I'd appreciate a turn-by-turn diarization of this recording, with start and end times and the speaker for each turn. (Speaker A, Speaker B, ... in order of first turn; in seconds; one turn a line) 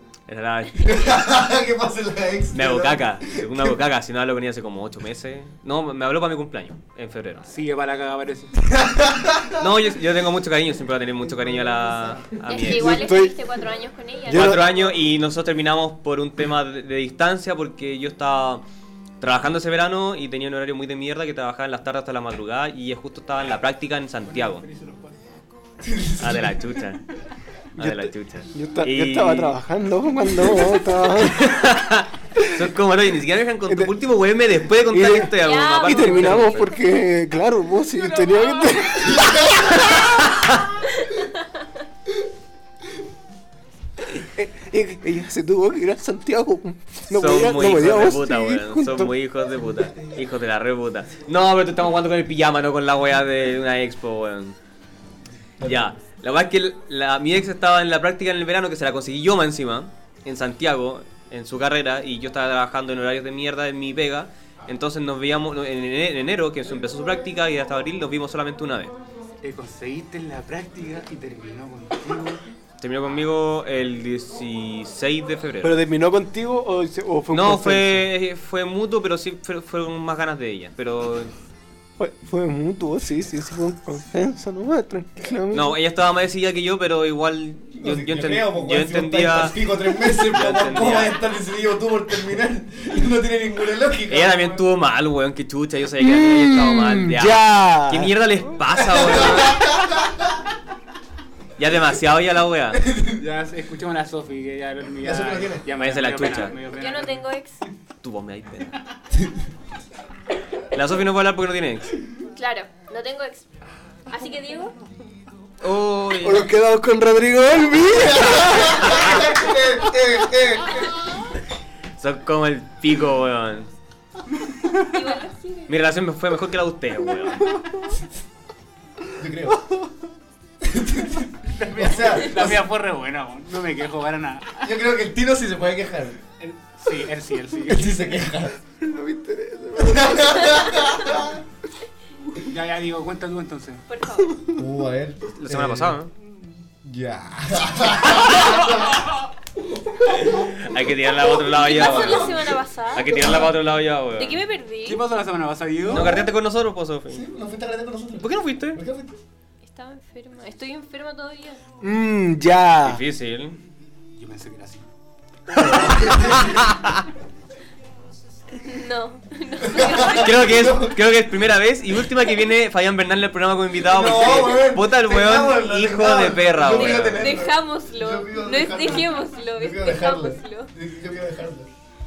Speaker A: 0.3-1.0
Speaker B: 0.8-3.7
Speaker A: 2.5-7.6
Speaker C: 7.5-8.5
Speaker B: 8.6-9.7
Speaker A: 9.6-13.1
Speaker D: 12.5-14.6
Speaker E: 12.6-13.3
Speaker E: 14.3-14.8
Speaker A: 14.3-18.6
Speaker A: 19.2-24.6
Speaker C: 24.3-25.1
Speaker B: 25.8-26.6
Speaker A: 26.2-27.0
Speaker A: 27.8-29.6
Speaker E: 27.8-31.6
Speaker A: 31.2-36.7
Speaker E: 33.7-33.9
Speaker E: 34.9-40.1
Speaker D: 35.4-36.9
Speaker D: 38.1-38.9
Speaker B: 39.1-39.7
Speaker E: 44.1-49.1
Speaker A: 47.1-54.6
Speaker A: 55.6-69.0
Speaker C: 69.4-72.4
Speaker A: 72.8-75.8
Speaker E: 75.6-78.1
Speaker A: 77.3-81.3
Speaker E: 82.0-85.8
Speaker A: 85.5-89.6
Speaker B: 87.8-94.6
Speaker A: 90.2-91.2
Speaker A: 94.1-99.7
Speaker E: 96.0-98.2
Speaker B: 98.9-100.3
Speaker A: 101.6-102.8
Speaker B: 102.8-103.2
Speaker C: 103.2-107.2
Speaker B: 105.0-105.7
Speaker A: 105.8-106.5
Speaker D: 106.7-107.6
Speaker A: 108.0-108.8
Speaker A: 110.7-111.9
Speaker D: 112.3-113.5
Speaker D: 114.1-114.7
Speaker A: 115.6-116.5
Speaker E: 116.2-119.3
Speaker B: 118.0-121.0
Speaker A: 118.8-119.2
Speaker A: 122.0-123.7
Speaker D: 124.9-125.8
Speaker A: 125.7-127.6
Speaker B: 129.2-129.6
Speaker B: 130.6-132.6
Speaker C: 131.5-134.7
Speaker B: 134.6-136.2
Speaker C: 136.4-138.0
Speaker B: 137.7-138.6
Speaker E: 138.8-140.8
Speaker B: 139.8-141.4
Speaker C: 142.5-143.8
Speaker D: 143.9-144.4
Speaker B: 144.5-146.0
Speaker A: 145.4-146.1
Speaker B: 146.8-149.1
Speaker B: 149.9-150.6
Speaker A: 150.6-152.4
Speaker D: 151.5-153.4
Speaker B: 151.7-152.5
Speaker A: 152.9-154.4
Speaker B: 153.1-153.5
Speaker D: 154.2-155.0
Speaker C: 154.8-156.1
Speaker B: 155.9-156.3
Speaker A: 155.9-157.2
Speaker B: 157.1-159.2
Speaker A: 158.2-158.8
Speaker D: 159.6-161.6
Speaker E: 161.8-163.0
Speaker A: 162.8-163.6
Speaker C: 164.2-164.9
Speaker B: 165.6-166.7
Speaker A: 165.6-166.9
Speaker D: 168.7-170.6
Speaker B: 169.6-171.0
Speaker A: 170.2-177.4
Speaker B: 173.8-181.7
Speaker D: 176.7-180.7